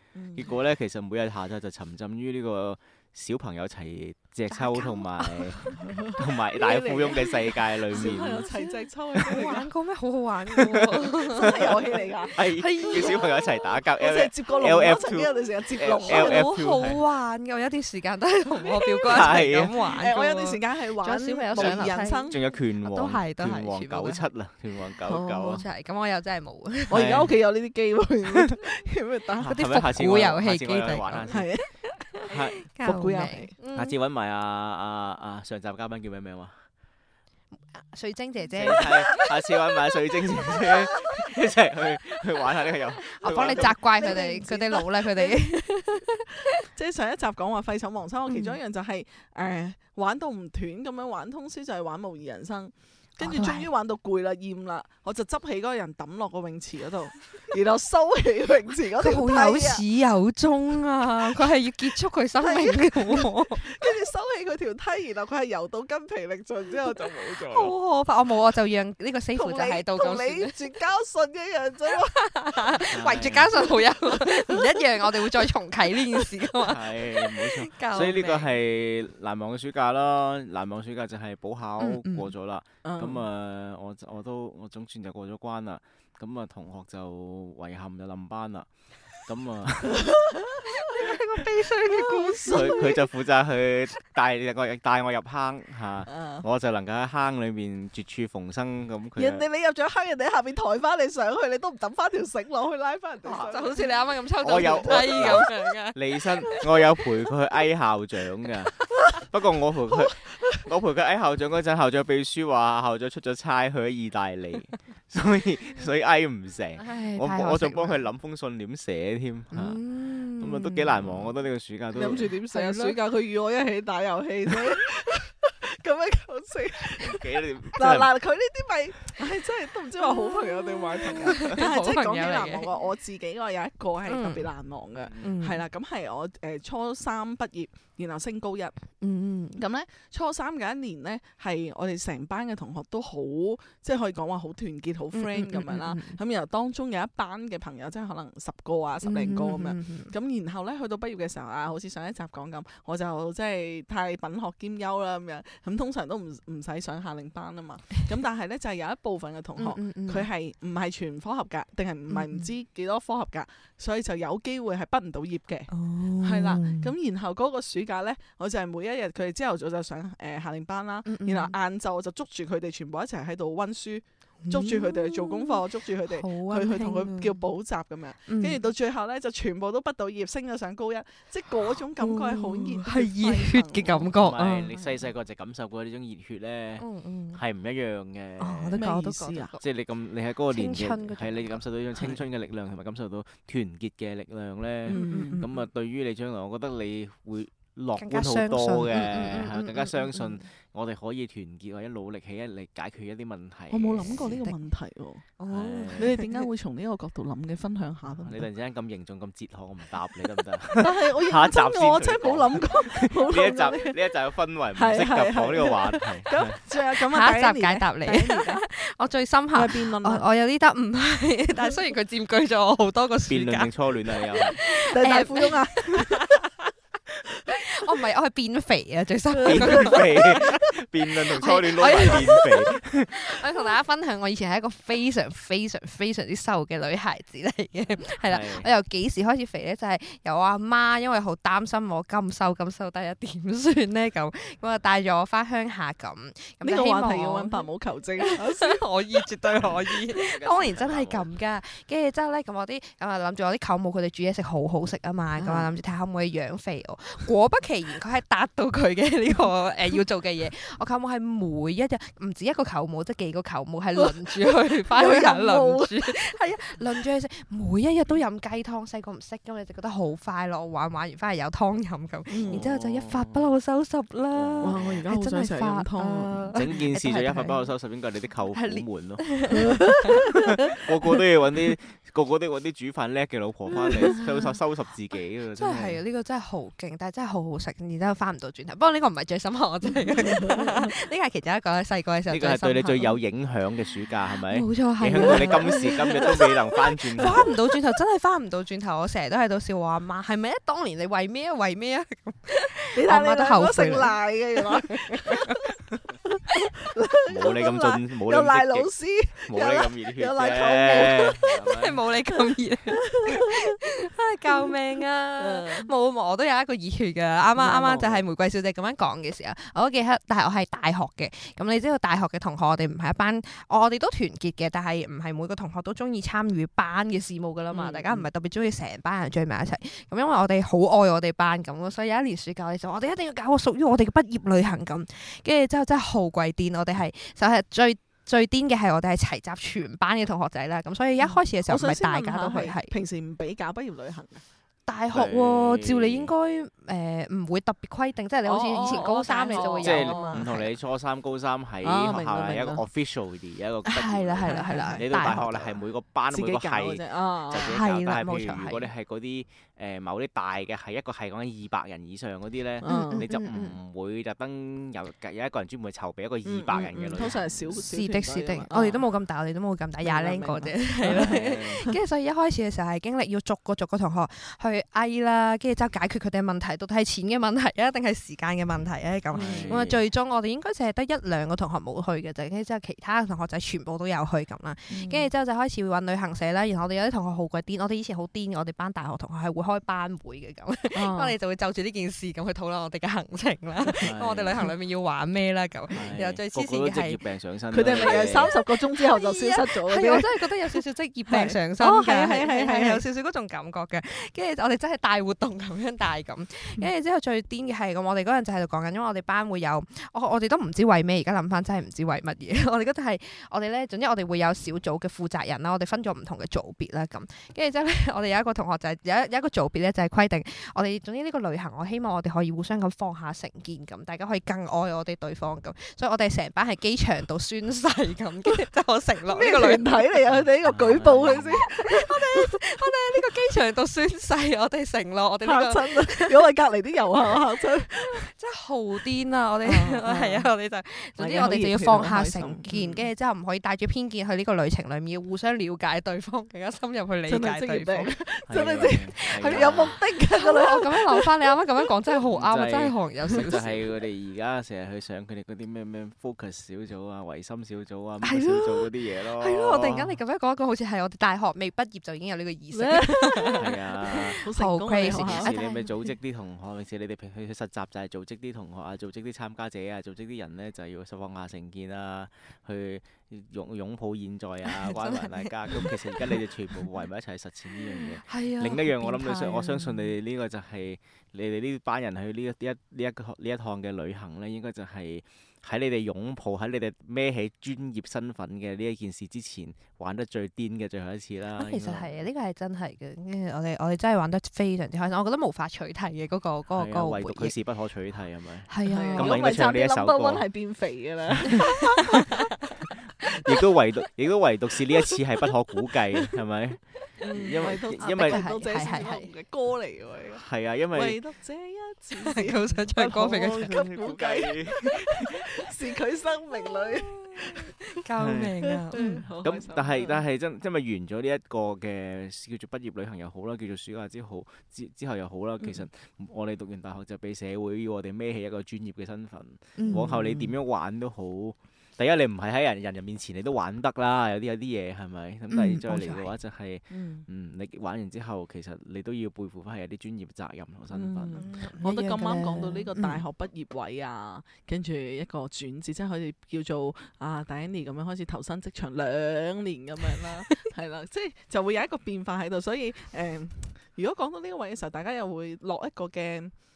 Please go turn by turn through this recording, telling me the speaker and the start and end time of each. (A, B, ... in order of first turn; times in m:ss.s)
0:00.1-0:00.5 A
0:00.3-0:08.5 B
0:04.5-0:05.8 C
0:05.8-0:09.7 A
0:07.9-0:13.3 C
0:10.5-0:17.0 B
0:11.3-0:12.4 A
0:12.9-0:13.2 A
0:14.0-0:16.6 A
0:16.0-0:22.3 C
0:18.6-0:22.4 A
0:19.1-0:19.7 B
0:21.5-0:25.6 B
0:22.8-0:24.2 C
0:25.1-0:25.6 A
0:25.4-0:27.1 C
0:26.9-0:29.6 A
0:26.9-0:27.3 B
0:29.4-0:31.5 B
0:29.4-0:33.9 C
0:31.3-0:31.7 A
0:32.3-0:33.6 A
0:32.3-0:32.6 B
0:33.7-0:36.6 B
0:37.7-0:39.2 C
0:38.6-0:43.8 B
0:38.8-0:39.2 A
0:43.0-0:46.6 C
0:43.2-0:45.4 A
0:46.6-0:59.8 A
0:48.3-0:48.6 C
0:53.2-0:53.7 C
0:59.0-1:03.7 C
1:02.4-1:07.7 A
1:07.5-1:10.6 C
1:09.3-1:12.8 A
1:12.1-1:18.5 C
1:12.9-1:13.6 B
1:13.6-1:15.4 A
1:16.5-1:28.7 B
1:21.8-1:22.3 C
1:22.8-1:23.2 A
1:29.2-1:30.0 B
1:29.9-1:30.6 A
1:30.7-1:33.0 C
1:31.9-1:33.0 A
1:32.4-1:39.4 B
1:36.1-1:36.4 A
1:39.2-1:44.0 A
1:43.2-1:43.7 B
1:43.3-1:46.0 C
1:44.4-1:59.8 B
1:44.9-1:45.4 A
1:48.9-1:49.2 A
1:50.0-1:50.6 A
1:56.8-1:58.1 C
1:59.5-2:01.3 C
2:00.4-2:02.3 B
2:01.9-2:18.8 A
2:02.5-2:03.0 C
2:07.0-2:08.1 B
2:10.0-2:12.7 C
2:14.1-2:14.5 C
2:14.9-2:15.4 B
2:15.2-2:15.6 C
2:19.0-2:19.6 C
2:19.6-3:04.1 A
2:25.1-2:26.2 C
2:29.0-2:30.1 C
2:39.6-2:40.3 C
2:42.1-2:42.5 C
2:45.7-2:46.9 C
2:51.0-2:51.5 C
2:54.4-2:57.4 C
2:58.3-2:58.6 C
3:02.0-3:04.7 C
3:03.9-3:08.8 B
3:04.7-3:05.0 A
3:06.8-3:07.4 C
3:08.4-3:09.6 C
3:08.8-3:09.6 A
3:09.6-3:24.3 B
3:10.5-3:11.5 C
3:14.9-3:15.5 A
3:14.9-3:15.3 C
3:18.0-3:20.4 C
3:23.7-3:25.3 A
3:24.0-3:24.6 C
3:25.4-3:26.3 C
3:25.5-3:26.2 B
3:26.0-3:28.5 A
3:28.2-3:36.5 B
3:30.8-3:34.0 A
3:34.7-3:38.6 A
3:37.0-3:43.9 C
3:39.5-3:40.2 A
3:43.3-3:44.6 B
3:44.4-3:46.7 C
3:44.8-3:46.4 A
3:47.5-4:07.6 C
3:49.4-3:50.2 A
3:49.4-3:53.4 B
3:58.2-3:58.7 B
4:06.6-4:09.3 A
4:08.2-4:37.7 C
4:10.1-4:11.3 B
4:15.4-4:15.8 A
4:24.0-4:24.3 A
4:24.9-4:26.3 A
4:32.3-4:32.6 A
4:32.5-4:33.5 B
4:34.3-4:35.1 B
4:34.6-4:36.7 A
4:36.5-4:39.4 B
4:38.5-4:40.8 C
4:39.5-4:40.5 A
4:40.4-4:46.0 B
4:43.7-4:44.1 A
4:44.2-4:44.5 C
4:45.6-4:53.2 C
4:50.0-4:50.8 A
4:52.3-4:57.5 B
4:54.5-5:05.7 C
4:55.2-4:55.4 A
5:03.0-5:11.4 A
5:07.3-5:08.9 B
5:09.4-5:12.0 B
5:10.9-5:42.9 C
5:13.0-5:13.7 A
5:15.4-5:15.9 A
5:17.6-5:18.2 A
5:27.7-5:28.3 A
5:41.2-5:44.4 A
5:44.9-5:50.7 C
5:45.1-5:46.3 B
5:48.4-5:50.5 A
5:49.8-6:07.7 B
5:51.8-5:52.8 A
5:53.8-5:55.7 C
5:54.7-5:55.4 A
5:56.3-5:57.7 A
5:57.5-5:58.9 C
6:02.8-6:03.2 A
6:02.8-6:03.8 C
6:06.4-6:09.0 A
6:07.7-6:37.2 C
6:10.0-6:11.9 A
6:11.0-6:11.8 B
6:19.3-6:19.7 A
6:19.3-6:20.0 B
6:24.9-6:25.3 A
6:30.9-6:31.3 A
6:34.0-6:34.6 B
6:35.9-6:38.5 B
6:37.7-6:43.0 A
6:37.8-7:10.0 C
7:09.3-7:12.6 A
7:10.3-7:11.6 B
7:11.7-7:16.4 C
7:15.4-7:18.3 A
7:18.1-7:28.1 C
7:19.6-7:20.5 A
7:21.2-7:23.0 A
7:27.3-7:31.5 A
7:28.5-7:30.0 B
7:29.2-7:33.8 C
7:32.3-7:40.2 B
7:38.2-7:45.9 C
7:42.7-7:45.5 A
7:43.6-7:44.4 B
7:45.0-8:12.1 B
7:54.7-7:56.4 C
7:57.8-8:00.1 C
8:11.6-8:17.6 C
8:16.7-8:20.4 B
8:18.7-8:19.4 C
8:18.9-8:22.4 A
8:21.3-8:21.7 B
8:21.5-8:22.4 C
8:23.2-8:28.4 B
8:27.2-8:37.7 A
8:27.6-8:29.3 C
8:30.3-8:31.2 B
8:32.2-8:33.7 C
8:33.0-8:35.4 B
8:36.6-8:39.2 C
8:38.2-8:38.6 B
8:38.9-8:40.2 A
8:39.4-9:01.4 B
8:49.8-8:50.4 C
8:55.5-8:56.3 C
8:56.9-8:57.2 A
9:00.9-9:16.5 A
9:01.4-9:03.2 C